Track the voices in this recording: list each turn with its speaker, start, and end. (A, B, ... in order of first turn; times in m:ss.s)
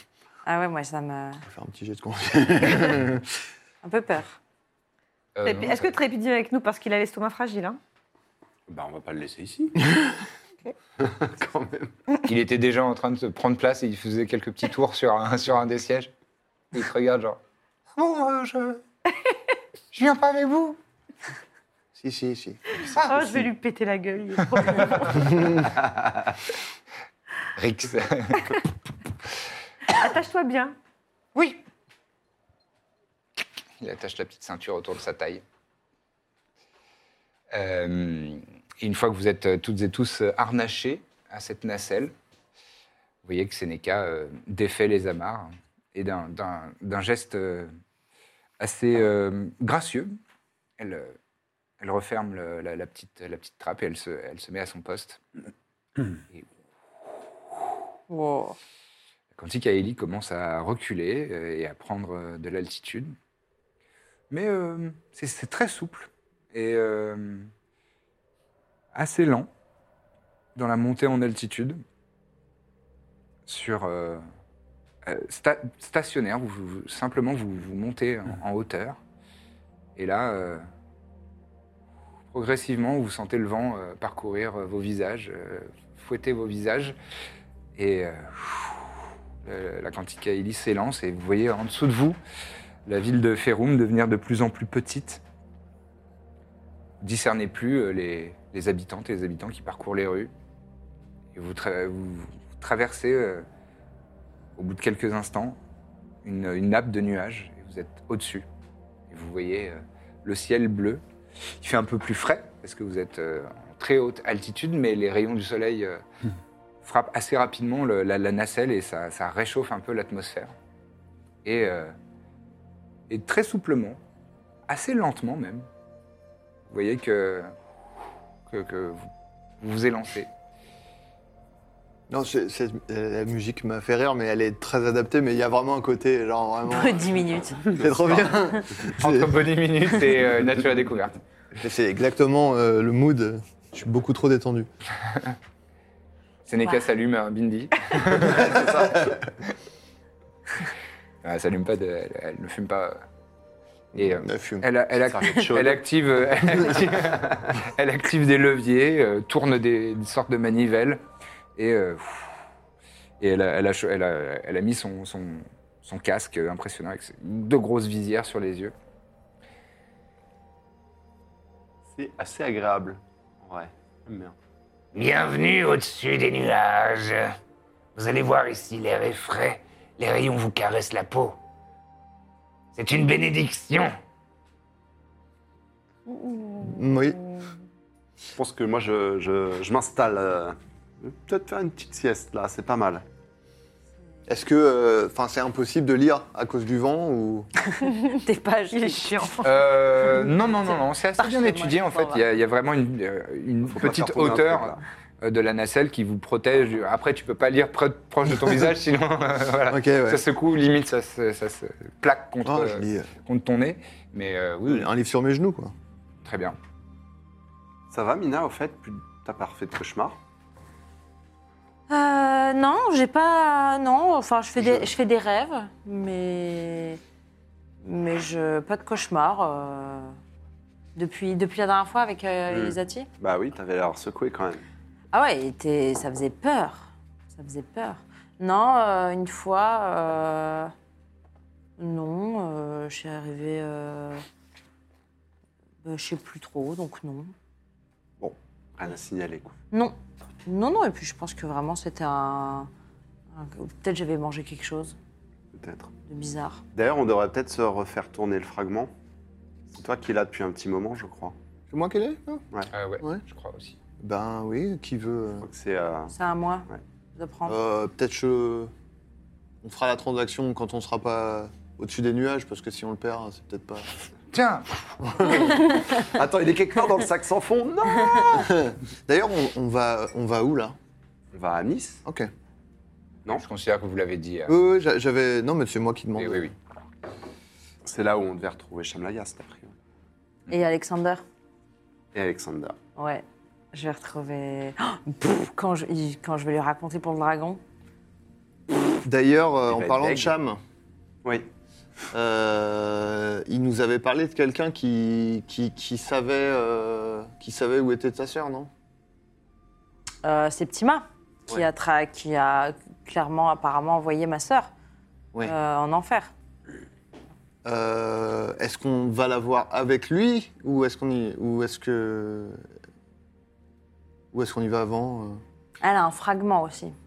0:00.4-0:01.4 A
0:01.4-0:03.3 B
0:03.8-0:04.4 A
0:05.4-0:05.9 C
0:05.4-0:07.8 D
0:08.7-0:09.9 E
0:11.0-0:11.9 E
0:12.2-0:16.1 C
0:16.7-0:17.4 C
0:18.0-0:18.8 C
0:19.9-0:20.5 C
0:20.3-0:20.8 F
0:21.9-0:23.4 B
0:22.9-0:25.4 D
0:25.2-0:25.6 B
0:27.6-0:28.5 C
0:29.9-0:30.8 D
0:33.8-0:35.4 C
0:37.5-0:42.1 C
0:43.2-0:47.7 C
0:48.6-0:50.2 C
0:50.8-0:51.2 C
0:51.8-0:55.2 C
0:58.1-0:58.6 A
0:59.3-1:03.1 C
1:04.3-1:07.5 C
1:08.9-1:09.5 C
1:10.5-1:11.8 C
1:13.4-1:14.2 C
1:15.0-1:19.0 C
1:20.0-1:20.6 C
1:22.3-1:27.0 C
1:27.8-1:28.9 C
1:29.4-1:32.2 C
1:32.9-1:35.2 C
1:37.0-1:40.3 C
1:41.3-1:43.4 C
1:44.6-1:45.6 C
1:46.2-1:48.4 C
1:49.1-1:51.0 C
1:51.6-1:56.0 C
1:56.8-2:00.5 C
2:01.4-2:01.9 C
2:03.1-2:04.0 C
2:04.7-2:05.7 C
2:06.7-2:07.5 C
2:08.5-2:10.3 C
2:12.1-2:19.5 B
2:16.7-2:17.6 A
2:18.9-2:21.1 C
2:21.6-2:24.7 B
2:25.1-2:25.3 C
2:26.5-2:28.8 C
2:28.4-2:28.9 B
2:28.4-2:29.0 E
2:31.2-2:33.0 C
2:33.9-2:34.7 B
2:34.0-2:41.0 C
2:35.0-2:37.5 E
2:41.6-2:42.3 C
2:43.2-2:48.7 C
2:51.9-2:54.4 E
2:54.9-2:57.4 F
2:58.0-3:01.4 F
3:02.7-3:03.9 F
3:06.1-3:07.5 D
3:06.6-3:07.2 B
3:08.3-3:13.0 E
3:14.3-3:17.5 B
3:17.7-3:19.4 A
3:18.7-3:19.4 D
3:19.4-3:34.9 C
3:20.6-3:22.2 A
3:23.7-3:24.8 E
3:28.3-3:28.6 B
3:29.7-3:30.2 B
3:32.4-3:33.1 B
3:34.6-3:35.7 B
3:36.2-3:36.6 C
3:37.9-3:40.2 E
3:41.9-3:47.0 A
3:44.6-3:44.9 E
3:47.8-3:50.2 A
3:51.0-3:53.1 A
3:52.5-3:54.6 E
3:55.1-4:00.7 A
4:01.8-4:04.2 A
4:05.8-4:07.3 A
4:08.2-4:09.5 E
4:10.4-4:12.7 A
4:13.3-4:15.0 A
4:15.5-4:15.9 E
4:16.1-4:16.6 A
4:16.7-4:18.9 E
4:19.7-4:21.4 E
4:21.7-4:22.4 B
4:22.7-4:23.8 C
4:24.0-4:25.5 B
4:25.4-4:26.1 E
4:26.1-4:27.6 A
4:27.4-4:28.7 B
4:29.6-4:33.9 B
4:34.3-4:35.0 C
4:35.0-4:35.5 B
4:35.5-4:38.5 E
4:38.4-4:40.8 B
4:41.3-4:42.0 E
4:43.3-4:44.6 C
4:44.5-4:46.5 B
4:46.2-4:46.5 C
4:47.8-4:49.7 E
4:50.5-4:51.2 A
4:52.1-4:52.8 E
4:53.0-4:57.6 A
4:59.0-5:00.6 B
4:59.7-5:00.3 E
5:01.2-5:01.5 E
5:02.1-5:08.7 B
5:10.2-5:14.7 A
5:15.4-5:16.3 A
5:17.6-5:22.6 B
5:24.3-5:25.4 B
5:25.8-5:26.9 A